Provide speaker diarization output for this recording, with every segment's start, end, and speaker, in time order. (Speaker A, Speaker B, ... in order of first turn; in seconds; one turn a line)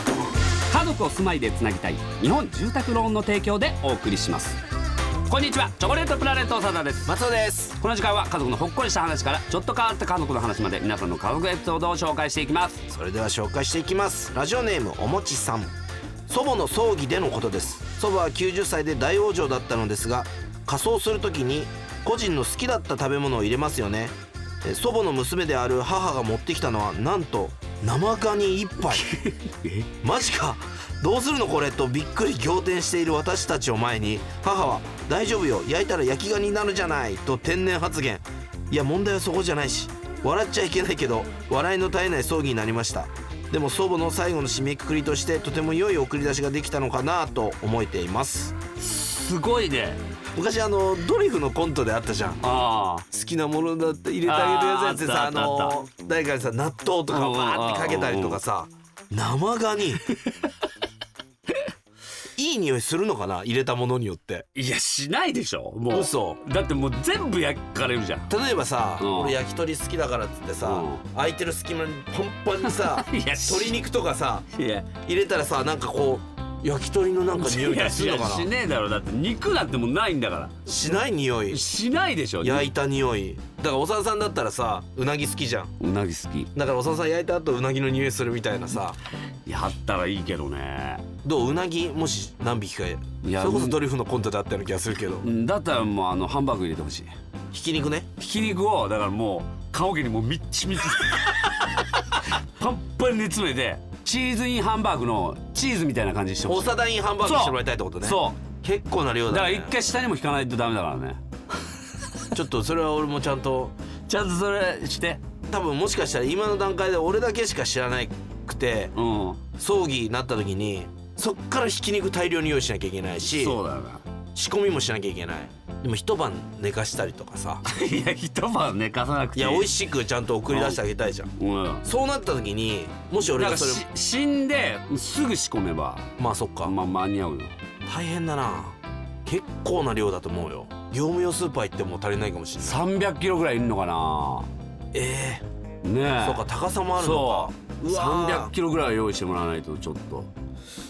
Speaker A: 0.7-4.6
Speaker A: 5.3-7.1
Speaker B: 7.0-7.8
Speaker A: 7.8-12.8
Speaker B: 12.9-15.7
Speaker B: 16.3-29.1
Speaker A: 28.9-29.9
Speaker B: 30.0-48.5
Speaker A: 48.8-50.0
Speaker B: 50.4-52.4
Speaker A: 52.4-53.0
Speaker B: 53.1-60.0
Speaker A: 54.2-55.8
Speaker A: 57.1-58.4
Speaker B: 62.4-64.5
Speaker A: 64.5-68.3
Speaker B: 65.9-66.4
Speaker B: 68.3-74.5
Speaker A: 69.0-69.4
Speaker A: 70.6-71.0
Speaker A: 72.6-73.8
Speaker A: 74.5-74.9
Speaker B: 75.0-78.5
Speaker A: 77.3-80.6
Speaker B: 80.7-81.6
Speaker A: 81.5-82.7
Speaker B: 82.4-85.7
Speaker A: 85.8-86.5
Speaker B: 86.5-89.0
Speaker A: 89.5-91.0
Speaker B: 91.2-95.3
Speaker A: 93.2-93.8
Speaker A: 95.2-97.1
Speaker B: 97.5-98.1
Speaker A: 98.2-106.7
Speaker B: 106.5-109.7
Speaker A: 107.2-108.4
Speaker A: 109.3-111.2
Speaker B: 112.3-113.7
Speaker A: 114.1-115.2
Speaker B: 115.5-118.9
Speaker A: 118.9-119.4
Speaker B: 119.6-123.6
Speaker A: 123.3-124.0
Speaker B: 124.3-127.6
Speaker A: 127.6-129.7
Speaker B: 129.3-131.3
Speaker A: 130.5-130.8
Speaker A: 131.4-131.8
Speaker B: 131.8-133.8
Speaker A: 133.2-136.1
Speaker B: 136.2-136.7
Speaker A: 136.6-137.5
Speaker B: 137.8-142.8
Speaker A: 142.6-144.5
Speaker B: 144.9-145.4
Speaker A: 145.8-146.4
Speaker B: 146.1-148.5
Speaker A: 147.0-150.3